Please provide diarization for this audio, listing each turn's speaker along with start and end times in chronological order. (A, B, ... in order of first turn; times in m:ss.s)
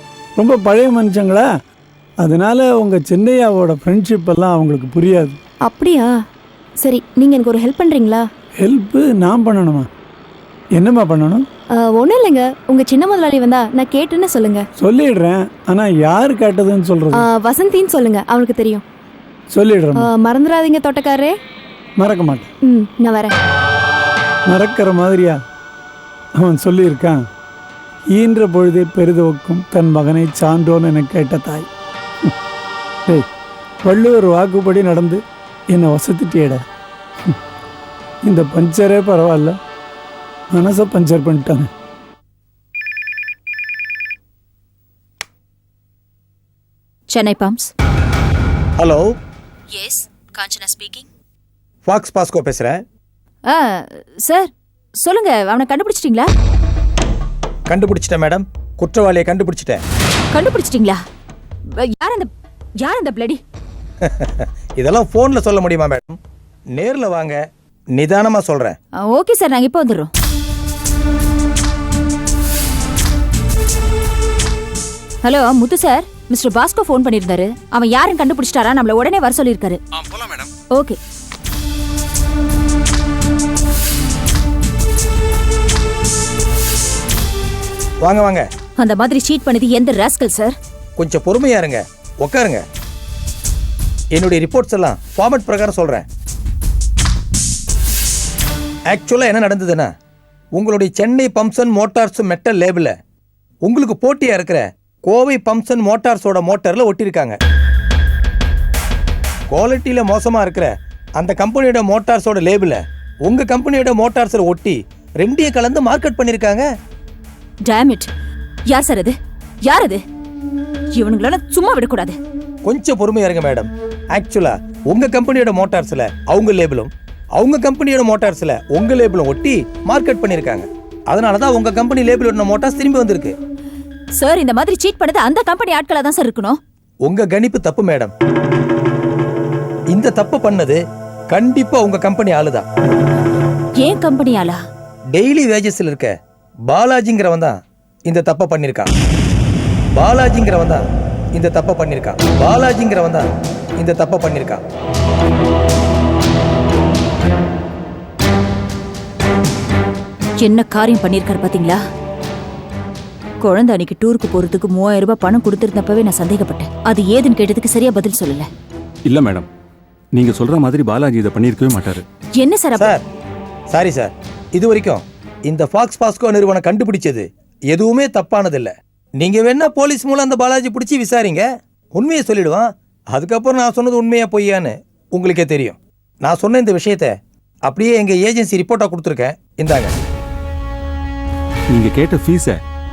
0:00.4-0:01.4 A
0:02.2-0:05.4 A
0:05.7-0:06.1 B
0:06.8-0:08.2 B
0:08.6-0:09.9 A
0:10.8-0:11.4 A
0:11.9-0:14.6 B
0:14.8-0:17.2 A
0:17.2-0:18.8 B
0:19.5-0:20.0 A
0:20.0-0:21.3 B
0:22.0-0:22.5 A
0:22.6-0:23.3 B
0:24.5-0:25.4 A
0:26.4-0:27.2 A
0:28.1-0:31.7 A
0:33.8-0:35.2 A
0:35.7-0:36.6 A
0:38.2-0:39.6 A
0:40.5-0:41.7 A
0:47.1-0:47.7 C
0:48.8-0:49.1 D
0:49.7-0:51.0 C
0:51.8-0:52.8 D
0:53.4-0:56.3 C
0:57.7-0:59.8 D
1:00.3-1:01.0 C
1:01.7-1:02.3 C
1:02.8-1:03.4 C
1:04.0-1:06.2 D
1:06.7-1:07.4 D
1:07.9-1:08.8 D
1:09.1-1:10.1 C
1:15.2-1:19.8 C
1:20.0-1:20.5 E
1:28.0-1:28.5 D
1:28.8-1:30.5 C
1:31.0-1:32.6 D
1:34.1-1:36.0 D
1:38.9-1:39.9 D
1:40.6-1:42.9 D
1:43.6-1:47.4 D
1:49.5-1:56.6 D
1:57.6-1:58.1 C
1:58.7-2:00.0 C
2:00.9-2:02.2 C
2:02.6-2:13.4 D
2:14.2-2:16.6 C
2:17.0-2:18.1 D
2:19.9-2:20.8 D
2:21.3-2:22.6 D
2:23.8-2:24.6 C
2:25.1-2:26.1 D
2:26.7-2:27.6 D
2:28.1-2:28.9 D
2:29.9-2:30.8 D
2:31.3-2:33.3 D
2:33.8-2:34.6 D
2:40.4-2:41.8 C
2:43.4-2:48.5 C
2:49.0-2:49.5 E
2:50.1-2:52.0 E
2:52.4-2:52.9 C
2:52.8-2:53.0 D
2:53.7-3:07.1 D
3:07.7-3:10.0 D
3:11.7-3:12.6 E